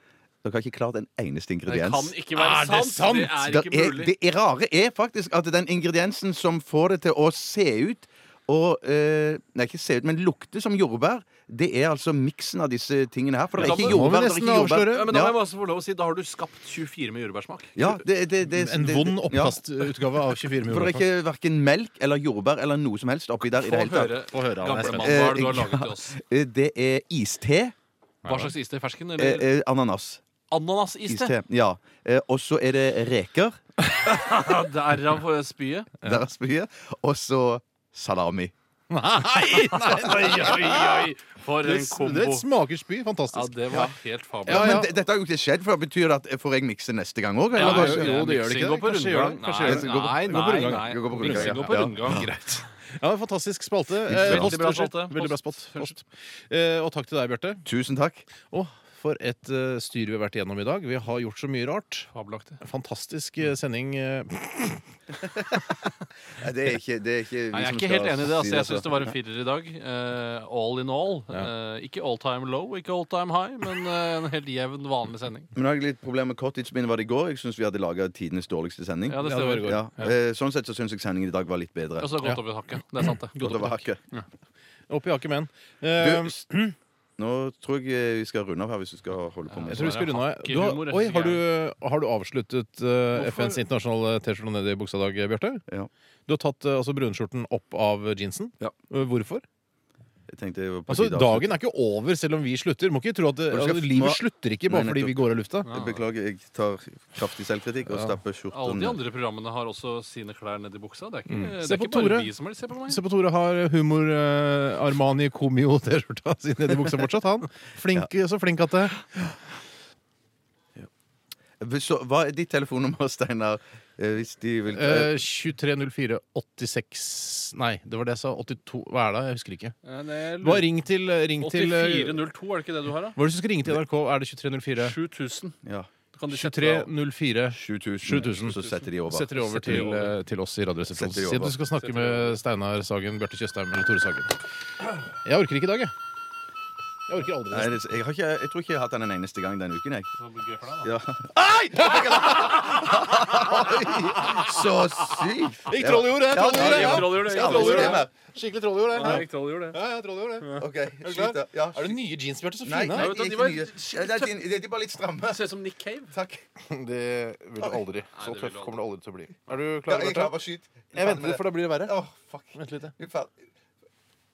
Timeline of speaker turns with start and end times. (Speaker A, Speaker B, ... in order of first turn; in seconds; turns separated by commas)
Speaker A: 0.4-2.1, Speaker B: 1.7-4.1, Speaker C: 2.3-3.4, Speaker A: 3.4-15.3, Speaker C: 13.6-15.2, Speaker B: 13.6-14.0, Speaker B: 14.9-17.8, Speaker A: 17.8-19.6, Speaker C: 18.4-21.0, Speaker A: 20.6-24.2, Speaker B: 23.4-26.2, Speaker C: 24.3-25.2, Speaker A: 24.8-27.7, Speaker C: 28.2-28.5, Speaker B: 28.2-29.5, Speaker A: 29.2-30.2, Speaker B: 30.5-31.3, Speaker A: 31.1-33.6, Speaker B: 34.0-35.9, Speaker A: 36.0-38.5, Speaker C: 38.9-41.1, Speaker B: 39.2-42.5, Speaker C: 41.6-43.9, Speaker B: 43.3-44.8, Speaker C: 44.5-44.9, Speaker A: 44.5-48.1, Speaker C: 47.5-57.6, Speaker B: 47.6-52.3, Speaker A: 49.6-52.3, Speaker A: 54.1-54.6, Speaker B: 54.1-56.0, Speaker A: 57.6-58.2, Speaker C: 58.5-62.1, Speaker B: 62.1-62.6, Speaker C: 62.6-64.8, Speaker A: 66.4-69.1, Speaker B: 67.5-75.5, Speaker A: 75.5-82.1, Speaker B: 79.1-80.1, Speaker C: 79.2-79.9, Speaker B: 82.0-84.2, Speaker A: 83.4-84.0, Speaker C: 84.9-86.8, Speaker A: 86.0-86.5, Speaker A: 87.2-90.0, Speaker B: 89.5-91.4, Speaker C: 89.6-95.6, Speaker B: 93.1-93.6, Speaker C: 96.3-99.4, Speaker A: 100.3-101.6, Speaker C: 100.9-105.7, Speaker A: 103.5-109.0, Speaker B: 105.6-106.0, Speaker B: 108.5-113.0, Speaker C: 111.3-112.3, Speaker C: 112.9-119.4, Speaker A: 121.6-125.1, Speaker C: 124.7-129.8, Speaker B: 129.8-130.7, Speaker C: 130.4-132.2, Speaker B: 131.4-133.2, Speaker C: 133.1-134.9, Speaker B: 134.8-135.6, Speaker A: 135.6-135.9, Speaker B: 136.1-136.9, Speaker C: 136.3-144.4, Speaker A: 137.5-139.9, Speaker B: 138.2-140.1, Speaker A: 140.9-141.6, Speaker B: 141.8-142.4, Speaker C: 145.2-145.9, Speaker C: 147.1-147.8, Speaker A: 147.5-150.1, Speaker B: 150.2-150.8, Speaker A: 150.8-158.1, Speaker C: 151.4-154.6, Speaker C: 155.7-163.1, Speaker B: 156.4-158.1, Speaker B: 158.9-159.8, Speaker A: 160.6-162.0, Speaker A: 162.6-165.6, Speaker B: 162.9-164.3, Speaker B: 165.2-166.1, Speaker A: 166.1-166.4, Speaker C: 166.6-170.3, Speaker B: 168.1-168.8, Speaker A: 169.9-173.3, Speaker C: 170.9-171.9, Speaker C: 172.6-172.9